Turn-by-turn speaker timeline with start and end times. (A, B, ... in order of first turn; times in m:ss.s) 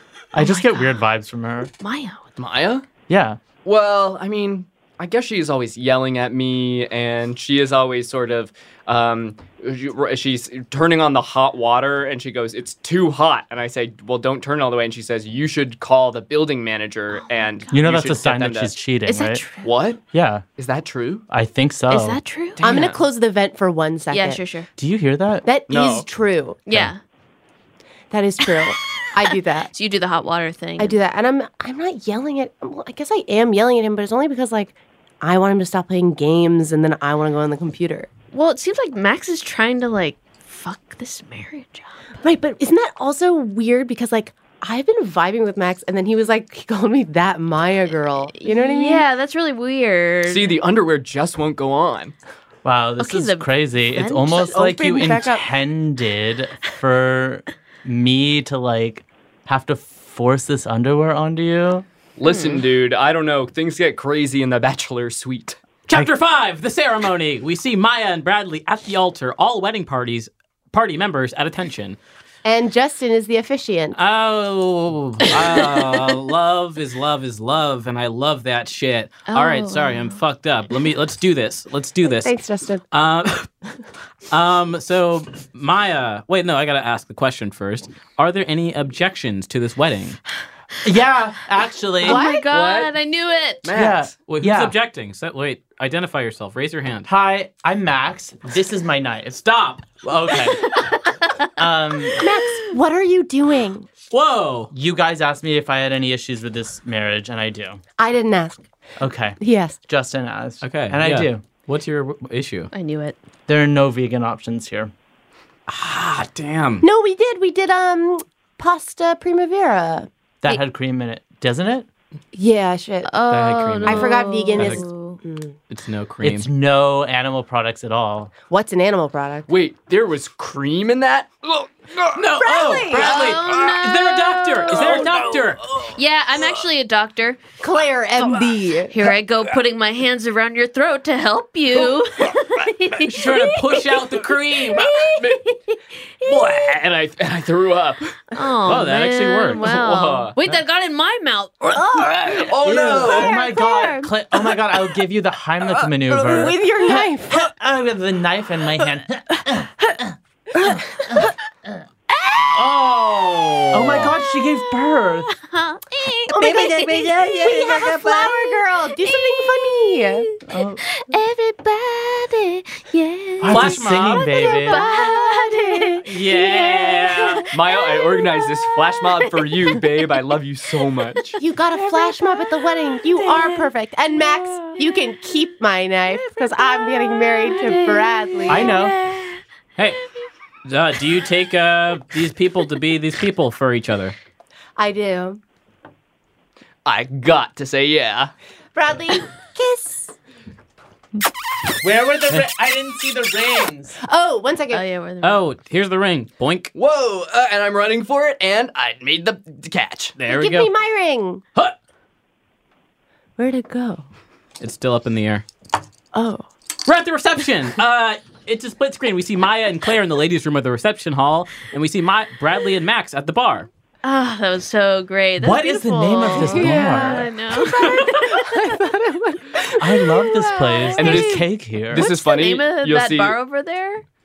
0:00.3-0:01.7 A
0:00.4-0:01.0 B
0:01.8-0:02.2 B
0:02.4-0:02.9 C
0:03.1-0:03.4 A
0:03.6-0:18.7 C
0:17.7-0:19.4 A
0:19.1-0:19.7 B
0:19.6-0:20.0 C
0:20.1-0:20.4 A
0:20.6-0:21.2 C
0:21.3-0:22.2 A
0:21.9-0:22.6 B
0:22.6-0:23.0 C
0:22.6-0:24.4 D
0:24.1-0:24.7 B
0:24.8-0:25.5 A
0:25.4-0:26.6 D
0:25.7-0:26.1 C
0:26.7-0:27.0 B
0:28.1-0:29.7 D
0:29.7-0:31.0 B
0:30.8-0:38.1 D
0:38.3-0:41.9 B
0:42.2-0:49.0 D
0:48.3-0:50.6 B
0:50.3-0:52.2 C
0:52.6-1:01.9 A
0:53.0-0:53.5 B
0:54.0-0:55.4 D
1:02.2-1:05.6 C
1:02.2-1:02.6 B
1:05.9-1:12.0 E
1:12.4-1:14.0 D
1:14.0-1:22.3 E
1:19.3-1:20.2 B
1:22.0-1:22.8 D
1:22.9-1:23.5 E
1:24.3-1:30.2 E
1:30.8-1:32.2 A
1:32.0-1:33.6 B
1:32.0-1:32.4 D
1:32.5-1:32.9 C
1:33.6-1:34.1 C
1:33.7-1:34.8 A
1:34.3-1:37.1 E
1:37.1-1:40.7 A
1:39.3-1:39.9 E
1:41.6-1:42.3 A
1:42.2-1:43.9 D
1:44.1-1:44.7 E
1:44.7-1:47.8 A
1:48.0-1:48.6 D
1:49.0-1:51.4 A
1:49.4-1:49.8 D
1:50.6-1:52.7 E
1:52.7-1:53.2 B
1:53.5-1:54.9 A
1:55.7-1:56.8 E
1:56.8-2:00.1 D
2:00.4-2:01.9 A
2:02.3-2:03.1 D
2:03.0-2:05.2 B
2:03.3-2:04.8 E
2:03.8-2:05.6 D
2:05.7-2:06.5 E
2:06.2-2:08.3 A
2:08.5-2:09.5 D
2:09.5-2:12.1 C
2:12.2-2:15.7 E
2:12.4-2:13.3 D
2:12.9-2:15.1 B
2:15.9-2:17.4 B
2:17.6-2:19.0 D
2:18.9-2:23.2 B
2:23.0-2:25.0 E
2:24.7-2:25.8 D
2:26.3-2:26.6 E
2:26.4-2:28.1 C
2:28.3-2:31.9 B
2:28.7-2:29.7 E
2:29.6-2:30.3 C
2:31.7-2:32.4 D
2:32.3-2:33.3 C
2:32.6-2:39.9 A
2:33.1-2:34.1 B
2:36.1-2:37.4 D
2:40.6-2:40.8 D
2:42.6-2:44.1 E
2:43.7-2:45.3 A
2:45.3-2:57.5 B
2:46.3-2:50.3 D
2:50.5-2:50.8 A
2:53.4-2:54.8 A
2:53.5-2:54.4 E
2:54.5-2:57.4 D
2:56.0-2:57.4 E
2:57.5-3:01.3 C
2:58.0-2:58.5 B
3:01.2-3:02.5 B
3:01.4-3:08.8 D
3:03.1-3:03.7 B
3:04.4-3:04.8 B
3:06.1-3:09.4 B
3:08.5-3:09.0 A
3:09.8-3:10.0 E
3:10.7-3:14.2 E
3:14.8-3:15.4 D
3:16.9-3:18.3 C
3:18.8-3:20.1 D
3:21.8-3:24.0 A
3:24.0-3:24.8 D
3:24.7-3:25.4 B
3:25.2-3:26.7 E
3:26.8-3:30.2 C
3:30.2-3:30.7 E
3:30.3-3:31.4 D
3:33.4-3:34.0 D
3:34.6-3:35.4 E
3:36.1-3:36.5 D
3:36.8-3:43.7 E
3:44.0-3:48.1 B
3:45.4-3:47.3 A
3:46.2-3:51.4 D
3:49.8-3:52.1 A
3:51.0-3:53.4 C
3:51.9-3:54.0 B